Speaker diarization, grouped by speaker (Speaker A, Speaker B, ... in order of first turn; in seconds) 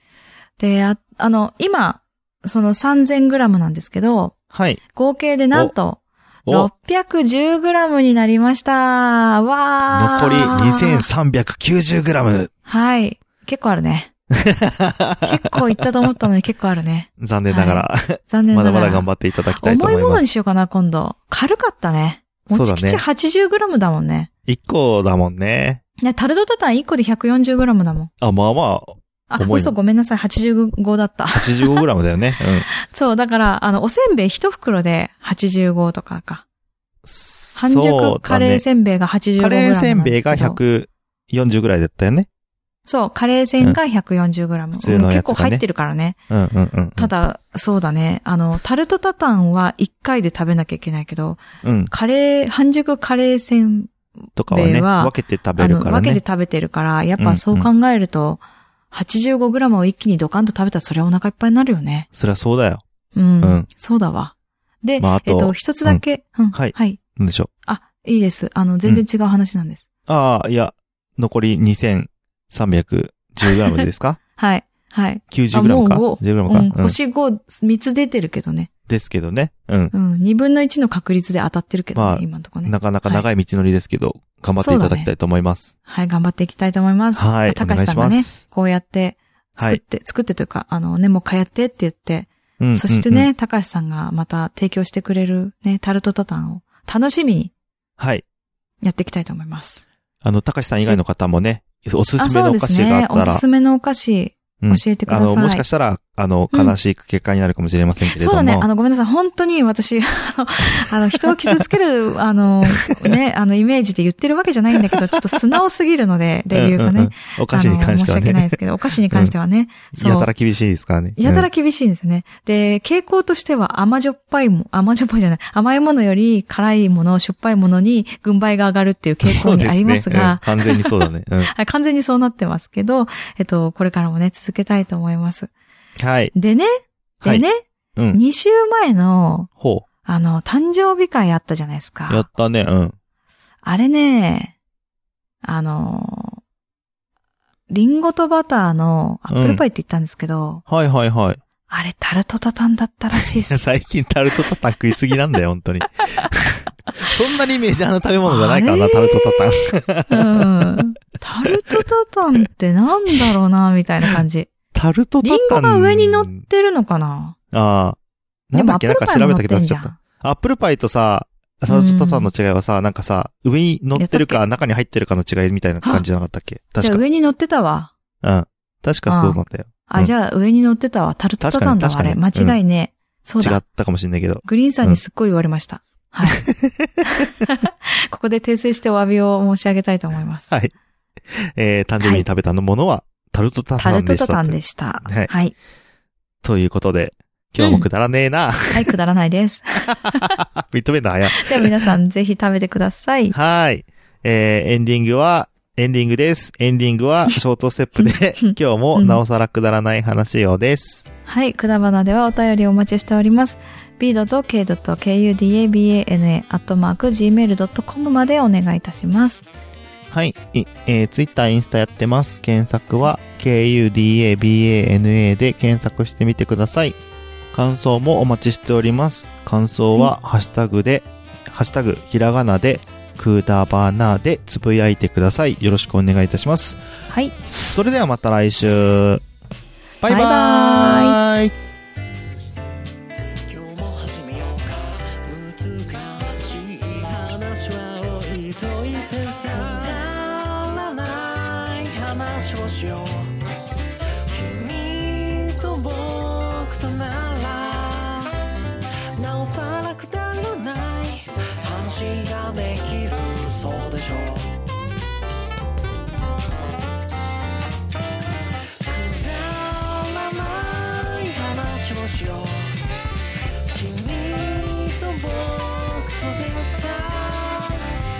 Speaker A: 0.6-4.3, 4.9-11.1, 12.7-14.1, 15.2-24.3, 26.0-28.1, 29.3-31.9, 32.7-36.4, 37.6-40.6, 42.9-46.2, 47.0-53.9, 54.5-58.4, 58.9-62.1, 63.1-67.0, 67.7-69.8, 73.5-73.8, 74.4-78.7, 79.9-83.3, 84.6-85.1, 85.9-97.5, 98.8-99.8, 102.2-105.7, 108.0-120.3, 121.2-135.5, 136.3-139.5, 140.1-142.3, 143.6-144.5, 145.4-146.4, 147.7-150.6, 151.7-153.6, 158.2-164.5, 165.2-167.4, 168.5-170.0, 171.7-172.3, 173.9-174.4, 176.8-177.9, 179.1-183.6, 184.4-186.4, 187.1-190.5, 192.0-192.3, 193.8-195.6, 197.6-197.9, 198.7-200.4, 201.4-203.3, 208.0-209.2, 211.3-219.4, 237.1-237.3, 240.0-241.2
Speaker B: 4.5-4.8, 9.9-12.5, 14.4-15.7, 17.2-20.2, 22.5-23.0, 24.5-25.8, 28.2-29.7, 31.3-32.7, 37.0-38.6, 39.4-42.3, 44.8-45.6, 46.3-47.1, 51.6-51.9, 54.4-56.2, 57.2-57.7, 62.1-62.8, 63.4-63.7, 65.0-67.5, 70.1-74.2, 75.3-77.0, 78.9-79.9, 82.0-85.7, 87.2-88.4, 92.6-93.3, 98.0-98.2, 100.2-103.4, 104.6-108.7, 111.2-111.6, 112.7-113.1, 114.9-115.2, 116.5-118.6, 119.9-121.5, 129.2-131.5, 136.0-136.3, 137.2-138.2, 139.6-139.8, 142.1-143.0, 149.3-149.6, 150.7-151.4, 153.1-160.9, 161.4-161.8, 164.7-166.4, 167.5-168.0, 168.5-177.0, 178.2-180.1, 181.4-182.6, 183.4-185.0, 186.3-186.9, 191.3-195.3, 196.4-198.9, 200.0-201.8, 203.3-211.1, 220.1-227.0, 227.5-236.8, 237.4-239.2, 240.0-241.5
Speaker C: 243.5-253.4, 254.3-258.4, 259.2-264.6, 268.8-272.9, 273.7-278.0